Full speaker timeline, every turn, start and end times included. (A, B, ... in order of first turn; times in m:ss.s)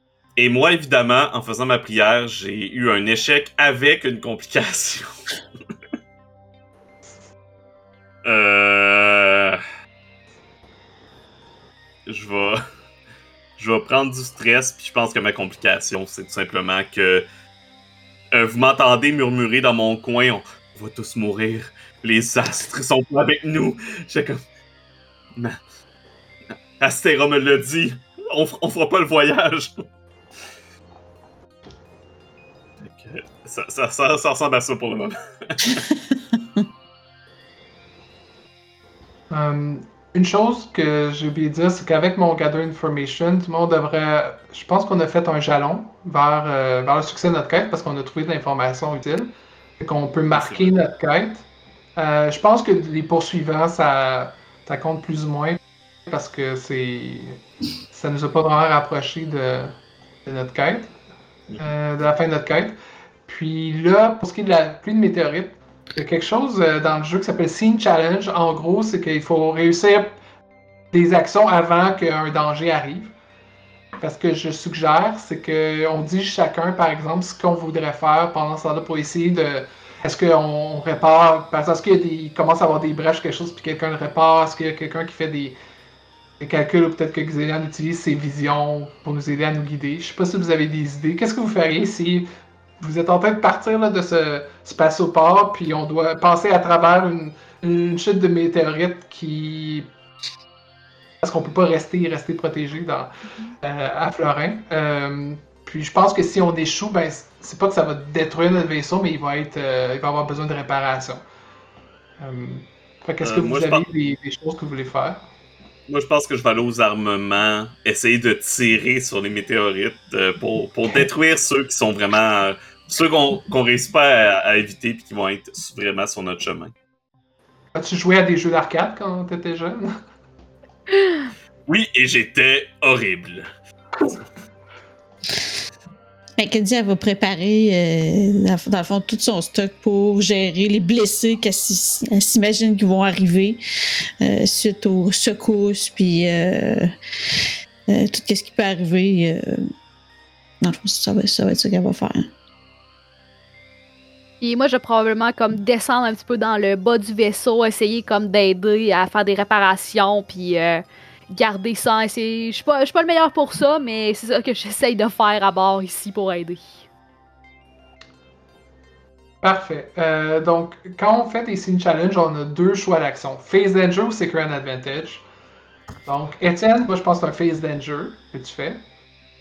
0:00.4-0:05.1 A
0:08.2-0:09.6 A
0:12.1-0:12.6 A
0:13.6-0:17.2 A
0:18.3-0:24.4 A
0:26.8-0:29.8 A
0:32.8-0:35.8 A
0:35.8-0:36.6 B
0:39.3-0:51.4 C
0:50.3-0:50.7 A
0:52.0-0:57.4 C
0:57.9-1:00.9 C
1:01.6-1:10.2 C
1:10.9-1:13.1 C
1:14.0-1:25.6 C
1:26.4-1:32.3 C
1:32.8-1:39.9 C
1:41.2-1:51.2 C
1:52.2-1:55.2 C
1:53.2-1:53.8 A
1:55.9-2:06.7 A
2:07.8-2:10.0 C
2:11.7-2:13.5 A
2:16.4-2:23.6 B
2:24.2-2:29.7 B
2:30.6-2:32.3 B
2:34.4-2:46.7 D
2:49.4-2:55.2 C
2:56.1-2:58.8 C